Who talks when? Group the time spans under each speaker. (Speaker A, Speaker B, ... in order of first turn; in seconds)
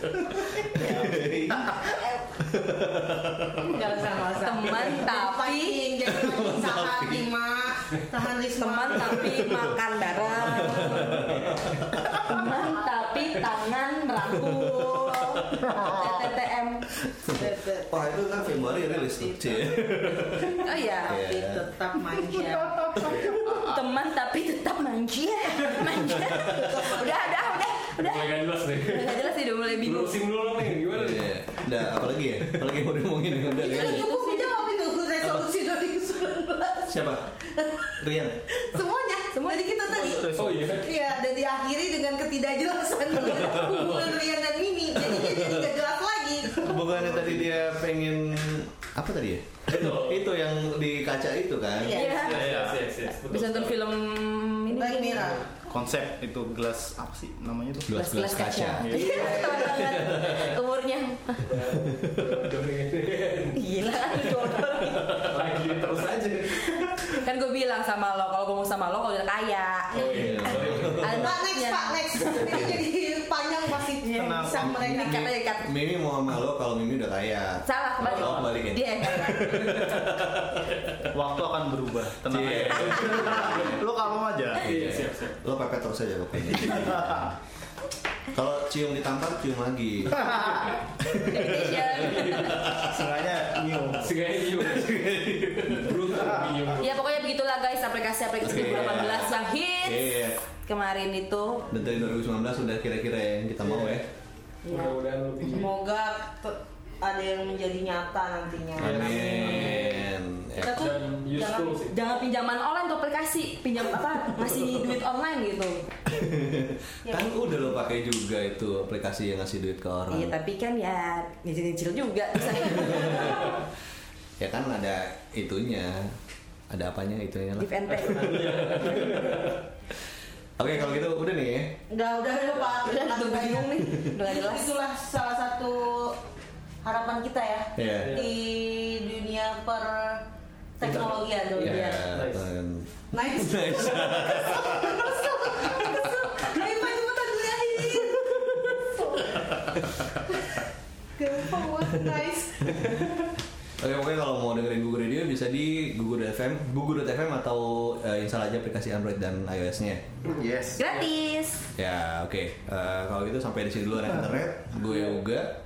Speaker A: 0.3-1.9, 22.5-23.9, 40.0-40.7, 46.7-47.6, 52.3-52.8, 55.6-58.0, 58.8-59.6, 74.1-74.7, 81.1-84.6, 86.7-87.3, 90.2-90.7, 92.8-94.1, 96.1-96.8, 160.3-160.8
Speaker B: 0.6-1.8, 2.4-3.8, 6.0-7.3, 10.3-12.2, 17.2-21.7, 26.3-26.6, 30.9-34.1, 36.9-37.3, 38.0-38.4, 43.3-44.0, 45.0-45.7, 46.6-52.0, 57.9-59.0, 61.6-62.5, 70.1-71.4, 72.5-72.8, 74.6-79.8, 82.3-83.7, 84.6-87.3, 88.3-93.1, 94.7-96.0, 98.4-100.4, 101.7-104.1, 108.8-111.0, 116.1-120.3, 122.5-123.6, 124.4-126.2, 126.7-129.4, 130.6-131.8, 137.8-138.2, 141.6-146.5, 147.9-148.5, 151.8-153.0, 153.8-160.1, 161.8-165.6
Speaker C: 1.8-2.4, 3.7-11.5, 12.6-13.4, 14.3-15.2, 15.8-16.3, 17.3-22.9, 26.4-27.5, 33.5-37.0, 37.5-37.9, 38.5-47.2, 51.8-52.4, 54.7-55.5, 59.0-59.6, 71.1-75.4, 105.5-110.0, 110.6-111.8, 117.1-117.6, 131.9-136.2, 136.8-140.2, 140.8-142.0, 143.1-149.6, 150.3-150.6, 151.2-152.8
Speaker D: 4.4-6.0, 8.6-11.2, 12.2-16.9, 20.6-21.2, 23.5-30.2, 33.5-34.6, 39.3-40.0, 51.9-52.4, 53.3-55.4, 57.9-61.5, 63.5-65.3, 67.2-72.7, 74.0-75.7, 77.7-79.9, 91.2-92.6, 96.8-101.7, 104.7-105.0, 111.9-115.9, 120.1-123.6, 127.6-129.4, 132.7-134.7, 160.8-161.6
Speaker E: 23.0-23.4, 28.0-31.9, 40.3-40.9, 49.7-50.2, 52.1-53.8, 59.2-60.5, 61.5-67.2, 69.9-71.2, 78.0-78.5, 79.4-81.1, 82.4-83.8, 84.6-85.4, 92.0-92.5, 94.0-97.0, 103.6-104.1, 104.7-105.7, 108.8-110.0, 110.8-111.9, 127.9-129.6, 138.0-138.4, 140.8-142.5